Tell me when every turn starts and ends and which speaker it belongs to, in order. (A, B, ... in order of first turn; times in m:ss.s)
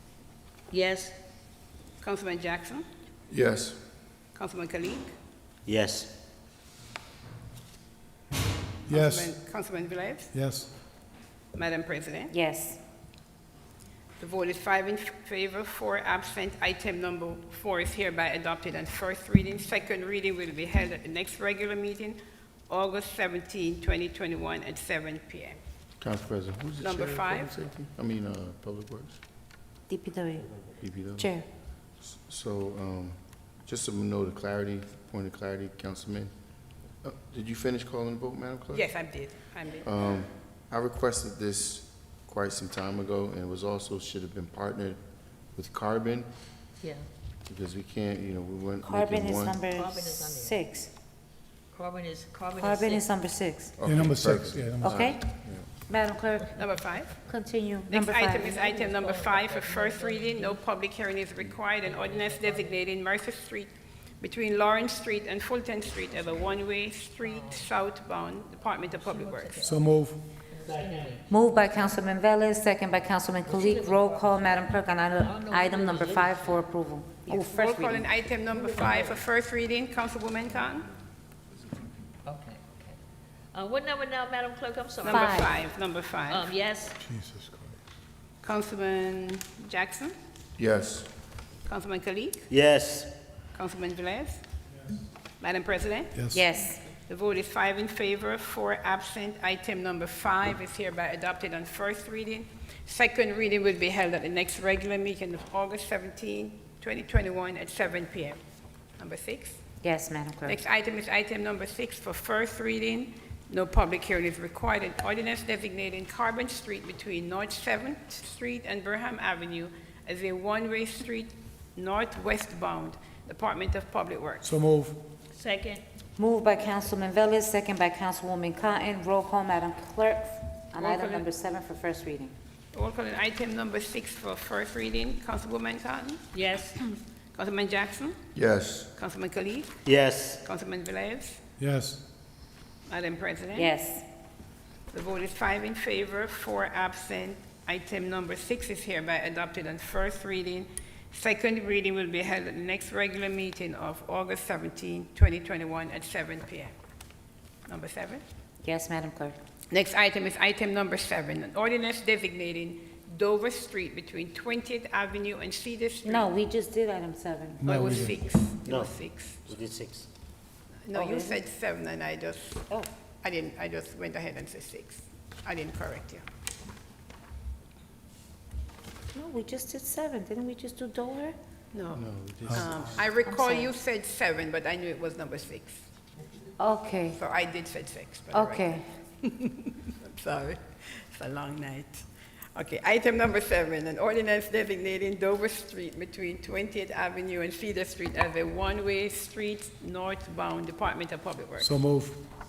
0:00.7-0:01.2 A
0:02.0-0:02.8 B
0:03.3-0:03.8 C
0:04.4-0:05.1 B
0:05.7-0:06.1 D
0:08.9-0:09.4 E
0:08.9-0:10.3 B
0:10.3-0:10.7 E
0:11.6-0:12.3 B
0:12.3-0:12.8 F
0:14.2-0:25.6 B
0:26.0-0:29.2 C
0:26.8-0:27.5 B
0:29.9-0:31.5 F
0:30.8-0:31.4 C
0:32.0-0:36.3 C
0:37.0-0:39.1 C
0:38.7-0:39.9 B
0:39.8-0:46.3 C
0:46.8-0:47.1 A
0:47.5-0:49.6 C
0:48.8-0:50.9 F
0:49.7-0:50.6 A
0:51.7-0:53.1 A
0:52.6-0:53.8 F
0:53.8-0:55.7 C
0:53.8-0:55.2 E
0:54.8-0:58.5 F
0:56.6-0:57.1 B
0:57.9-1:09.7 B
0:58.4-1:00.6 A
1:01.8-1:02.8 A
1:07.2-1:07.7 A
1:08.8-1:11.2 A
1:09.6-1:10.2 E
1:11.3-1:18.1 F
1:13.4-1:16.6 A
1:17.3-1:20.9 B
1:18.5-1:19.2 A
1:22.2-1:23.0 A
1:23.5-1:25.6 A
1:25.0-1:26.4 B
1:25.1-1:25.5 F
1:26.3-1:27.0 A
1:27.0-1:27.7 E
1:28.4-1:30.1 B
1:30.6-1:31.1 C
1:31.7-1:32.5 B
1:32.5-1:33.1 D
1:33.5-1:34.4 B
1:35.4-1:36.2 B
1:36.2-1:36.4 E
1:36.3-1:36.8 F
1:37.1-1:48.4 B
1:49.0-1:49.6 B
1:49.8-1:50.6 F
1:50.5-2:04.5 B
2:04.4-2:05.0 E
2:05.3-2:05.8 A
2:06.2-2:12.3 F
2:10.8-2:11.3 B
2:12.7-2:16.3 B
2:16.3-2:16.8 A
2:17.3-2:18.2 B
2:18.4-2:18.9 C
2:19.0-2:21.4 B
2:19.8-2:20.4 D
2:21.6-2:22.0 E
2:22.9-2:23.7 B
2:23.6-2:24.0 F
2:24.9-2:36.7 B
2:37.7-2:38.2 B
2:38.6-2:39.4 F
2:39.7-2:46.3 B
2:46.0-2:47.6 F
2:47.6-2:48.2 E
2:47.6-2:49.4 B
2:48.6-2:50.1 D
2:50.9-2:52.6 B
2:50.9-2:51.4 F
2:53.2-2:56.2 B
2:59.1-3:01.4 F
3:01.7-3:05.8 B
3:02.0-3:03.0 C
3:03.2-3:03.7 F
3:06.6-3:07.2 F
3:07.1-3:21.8 B
3:08.3-3:08.8 F
3:21.6-3:22.2 E